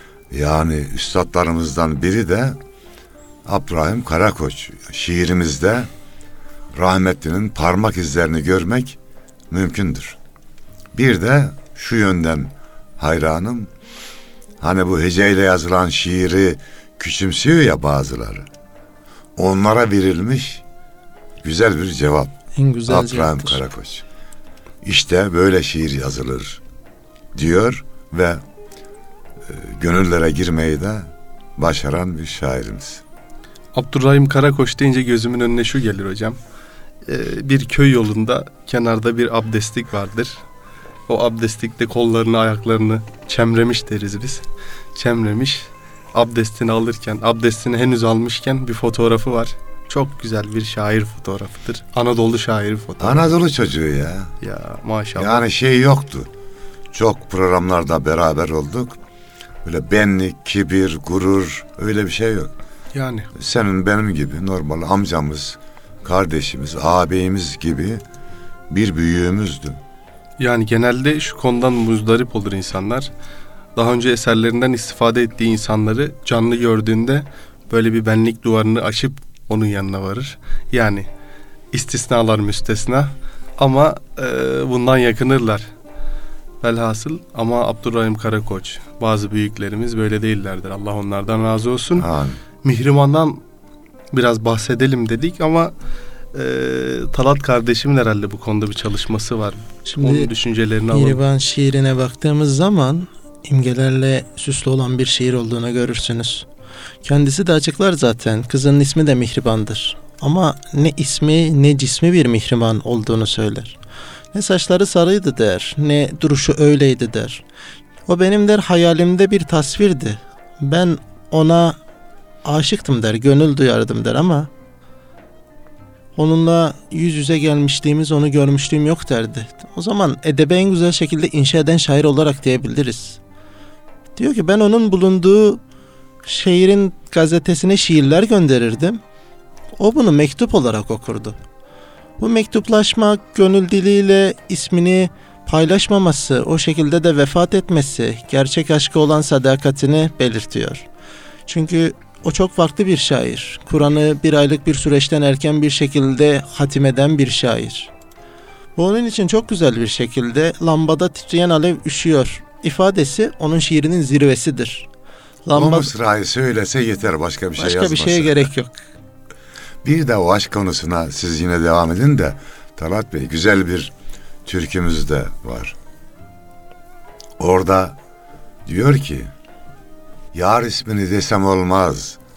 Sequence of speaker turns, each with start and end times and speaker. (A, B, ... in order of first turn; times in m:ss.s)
0:00.3-0:02.6 A
0:03.5-0:05.9 A
0:06.7-0:09.0 A
0:09.5-0:10.2 A
0:10.9-0:13.7 A
0:14.6-0:18.5 A
0:19.4-0:20.6 A
0:21.4-0:22.3 A
0:22.6-0:23.6 B
0:22.9-0:24.0 A
0:24.8-0:26.6 A
0:27.4-0:28.4 A
0:29.4-0:33.0 A
0:33.7-0:36.4 C
0:37.0-0:40.4 C
0:41.1-0:53.4 C
0:53.0-0:54.3 A
0:54.4-0:55.4 C
0:55.2-0:56.3 A
0:56.9-0:59.0 A
0:59.6-1:02.5 A
1:02.9-1:03.3 C
1:03.4-1:08.0 A
1:08.7-1:09.8 A
1:10.4-1:13.1 C
1:13.8-1:21.1 C
1:21.7-1:25.7 C
1:26.6-1:32.1 C
1:32.0-1:32.4 A
1:32.6-1:33.4 C
1:34.1-1:35.7 C
1:36.3-1:41.2 C
1:39.8-1:40.3 B
1:40.9-1:46.5 B
1:47.0-1:53.8 B
1:54.3-1:57.4 B
1:58.1-2:01.8 B
2:02.4-2:04.5 B
2:06.2-2:13.2 B
2:14.2-2:15.6 B
2:16.2-2:19.0 B
2:19.8-2:21.4 B
2:22.2-2:30.9 B
2:31.5-2:37.9 B
2:38.8-2:44.9 B
2:45.4-2:45.9 B
2:45.5-2:48.5 A
2:47.6-2:48.8 B
2:49.8-2:53.9 A
2:54.4-2:55.8 A
2:57.4-2:58.0 A
2:58.7-2:59.3 A
3:00.3-3:02.2 A